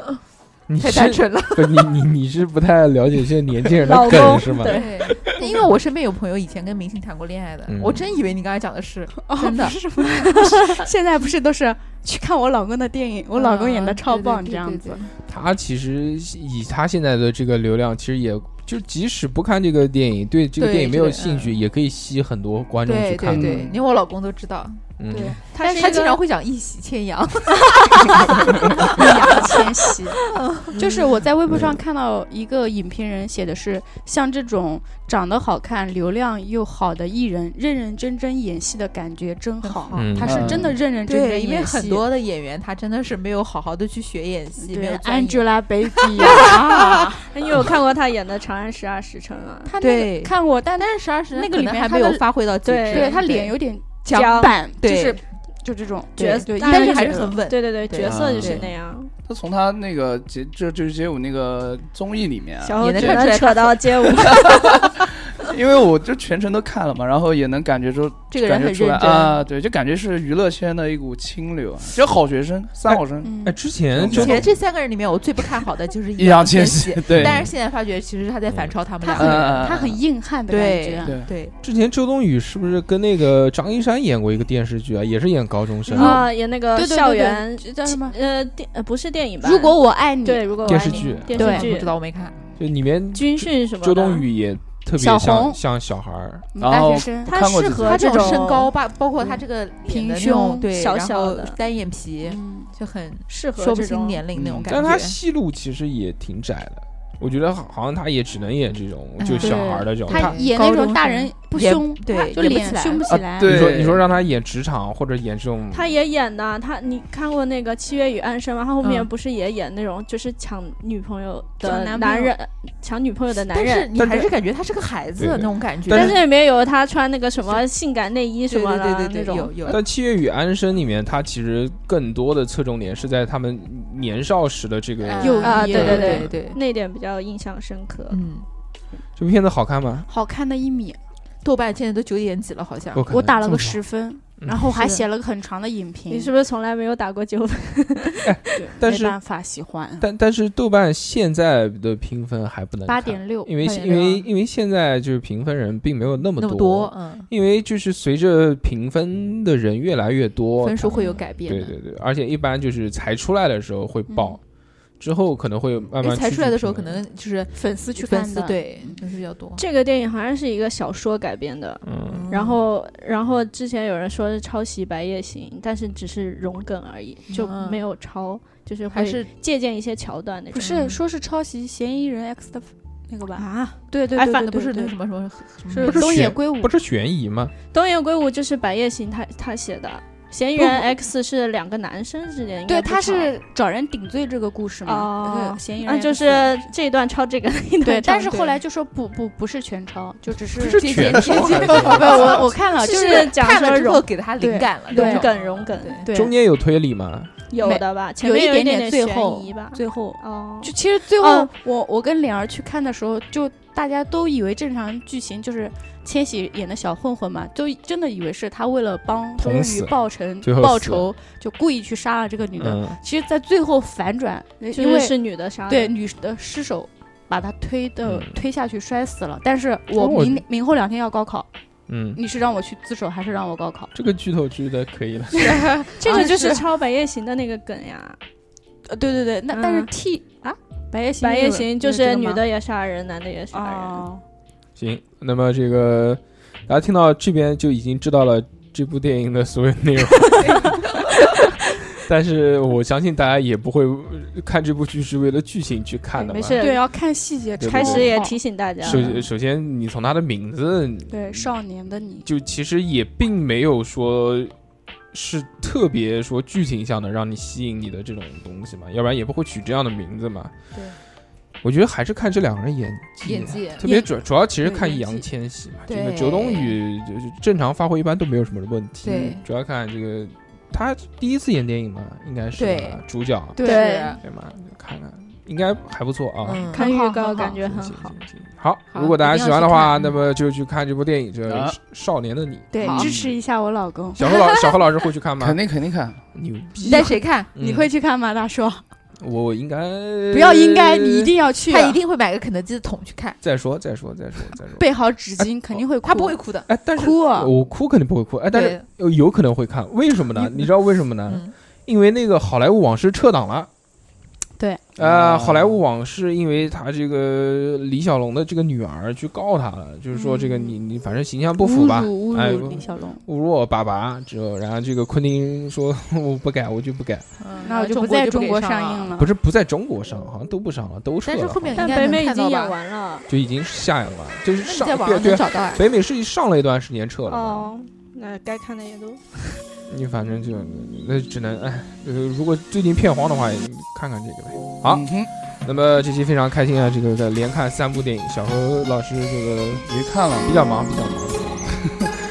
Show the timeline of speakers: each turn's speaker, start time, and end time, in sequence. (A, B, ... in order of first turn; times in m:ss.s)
0:00.7-0:04.8 A
0:00.8-0:01.9 B
0:03.8-0:05.1 C
0:04.6-0:10.7 B
0:07.7-0:08.1 A
0:09.2-0:15.0 D
0:13.3-0:15.1 B
0:15.3-0:23.6 A
0:20.6-0:21.6 B
0:22.8-0:24.8 B
0:23.3-0:23.8 E
0:25.0-0:25.4 A
0:25.1-0:25.9 D
0:25.5-0:30.9 B
0:25.7-0:26.1 C
0:29.0-0:30.2 D
0:30.7-0:42.1 D
0:31.5-0:31.8 A
0:39.6-0:40.0 B
0:39.9-0:40.8 A
0:40.2-0:40.7 E
0:41.0-0:47.0 B
0:44.6-0:47.3 D
0:46.3-0:49.7 C
0:49.7-0:52.2 D
0:49.8-0:55.2 B
0:52.6-0:53.2 C
0:53.0-0:57.4 D
0:54.1-0:54.5 C
0:56.2-0:58.6 B
0:56.2-0:59.1 C
0:58.0-0:58.7 E
0:59.2-1:03.3 E
1:02.6-1:04.7 C
1:02.8-1:04.6 B
1:04.2-1:13.3 E
1:08.3-1:09.4 B
1:12.8-1:14.5 A
1:13.2-1:13.6 D
1:13.9-1:14.5 E
1:14.1-1:19.7 B
1:16.2-1:17.5 E
1:17.1-1:17.5 A
1:18.5-1:18.8 A
1:19.0-1:21.2 D
1:19.2-1:20.0 E
1:20.5-1:21.5 B
1:21.0-1:21.3 E
1:21.6-1:26.2 A
1:25.9-1:31.9 C
1:26.0-1:28.2 D
1:29.4-1:31.7 D
1:30.6-1:31.7 A
1:30.7-1:32.4 B
1:32.6-1:36.5 A
1:33.1-1:34.3 C
1:35.0-1:35.6 D
1:36.6-1:38.0 E
1:36.6-1:37.3 D
1:37.2-1:38.7 C
1:37.8-1:45.2 B
1:38.0-1:38.3 D
1:39.3-1:40.7 D
1:40.7-1:41.6 C
1:42.2-1:42.7 D
1:43.3-1:44.1 D
1:43.5-1:44.2 C
1:44.3-1:44.8 E
1:44.7-1:50.3 A
1:49.2-1:53.0 B
1:49.4-1:53.5 D
1:53.1-1:54.1 E
1:53.4-1:56.0 A
1:55.7-2:03.9 C
1:58.8-1:59.1 B
2:01.6-2:02.3 B
2:03.5-2:06.2 B
2:04.0-2:04.3 A
2:05.2-2:06.2 A
2:05.9-2:09.6 C
2:08.5-2:09.8 B
2:09.6-2:16.0 A
2:15.0-2:16.6 B
2:15.2-2:16.3 D
2:15.4-2:18.2 C
2:18.1-2:18.5 B
2:19.2-2:20.1 A
2:20.0-2:21.0 D
2:21.4-2:23.1 B
2:22.9-2:23.8 A
2:23.1-2:26.3 D
2:24.4-2:24.7 A
2:24.8-2:25.0 B
2:26.1-2:28.8 C
2:28.2-2:29.2 A
2:28.6-2:30.0 D
2:30.0-2:44.4 A
2:32.9-2:33.6 D
2:33.6-2:34.3 B
2:36.4-2:37.3 B
2:40.6-2:41.8 B
2:44.1-2:44.4 D
2:45.0-2:47.0 A
2:46.0-2:49.6 B
2:47.5-2:48.8 D
2:49.6-3:01.0 C
2:51.8-2:52.3 A
2:52.1-2:52.6 B
2:57.3-2:57.8 B
2:58.9-2:59.3 B
3:00.5-3:04.9 D
3:04.2-3:04.5 C
3:04.4-3:06.1 B
3:05.7-3:06.7 D
3:05.8-3:07.5 A
3:07.7-3:13.4 C
3:10.6-3:11.0 D
3:12.7-3:16.6 D
3:14.9-3:18.4 C
3:17.8-3:23.2 D
3:18.3-3:18.6 B
3:20.5-3:26.1 B
3:20.8-3:22.2 A
3:22.0-3:24.1 C
3:24.4-3:25.3 D
3:24.9-3:26.1 C
3:26.0-3:26.3 D
3:26.1-3:27.3 A
3:27.5-3:31.5 C
3:27.6-3:45.1 D
3:39.4-3:41.1 A
3:42.6-3:43.0 A
3:44.6-3:45.9 C
3:45.7-3:51.5 D
3:48.0-3:48.4 A
3:50.0-3:50.4 A
3:51.9-3:52.2 A
3:52.2-3:53.9 D
3:53.9-3:55.8 A
3:55.4-3:56.6 B
3:56.0-3:56.6 D
3:56.0-3:58.2 C
3:58.9-4:02.4 D
3:59.5-3:59.9 C
4:01.2-4:04.0 C
4:03.5-4:04.2 D
4:04.8-4:10.8 A
4:12.0-4:16.6 A
4:16.2-4:19.2 D
4:16.5-4:16.8 C
4:17.6-4:18.2 A
4:17.6-4:19.2 C
4:18.8-4:21.6 A
4:21.1-4:22.3 D
4:22.2-4:24.5 A
4:25.1-4:30.5 A
4:31.6-4:43.6 A
4:33.2-4:33.9 B
4:33.8-4:35.3 D
4:35.8-4:36.8 B
4:39.0-4:39.5 B
4:42.6-4:44.2 B
4:43.6-4:44.2 C
4:44.2-4:46.7 A
4:46.4-4:46.8 B
4:46.7-4:48.1 C
4:46.8-4:47.6 D
4:47.4-4:53.4 A
4:48.9-4:50.2 B
4:51.5-4:51.8 E
4:52.7-4:53.1 B
4:52.7-4:55.0 D
4:54.2-4:55.6 A
4:55.4-4:56.2 E
4:56.3-4:57.9 A
4:56.8-4:58.8 D
4:56.9-4:57.5 B
4:59.2-5:01.3 A
5:00.3-5:02.0 D
5:01.6-5:03.4 B
5:03.4-5:04.9 A
5:04.8-5:07.5 D
5:05.4-5:05.8 A
5:06.0-5:06.7 B
5:06.7-5:13.7 A
5:08.5-5:08.8 B
5:11.3-5:11.5 B
5:15.0-5:15.8 E
5:15.0-5:27.3 A
5:20.1-5:20.8 D
5:21.6-5:23.2 D
5:27.4-5:29.1 B
5:27.6-5:29.3 D
5:29.2-5:31.9 A
5:31.2-5:32.8 B
5:31.8-5:33.3 C
5:33.3-5:37.7 A
5:34.6-5:35.8 B
5:37.3-5:39.6 C
5:39.9-5:45.1 A
5:44.8-5:45.3 E
5:45.6-5:49.9 A
5:49.8-5:50.7 E
5:50.4-5:51.7 A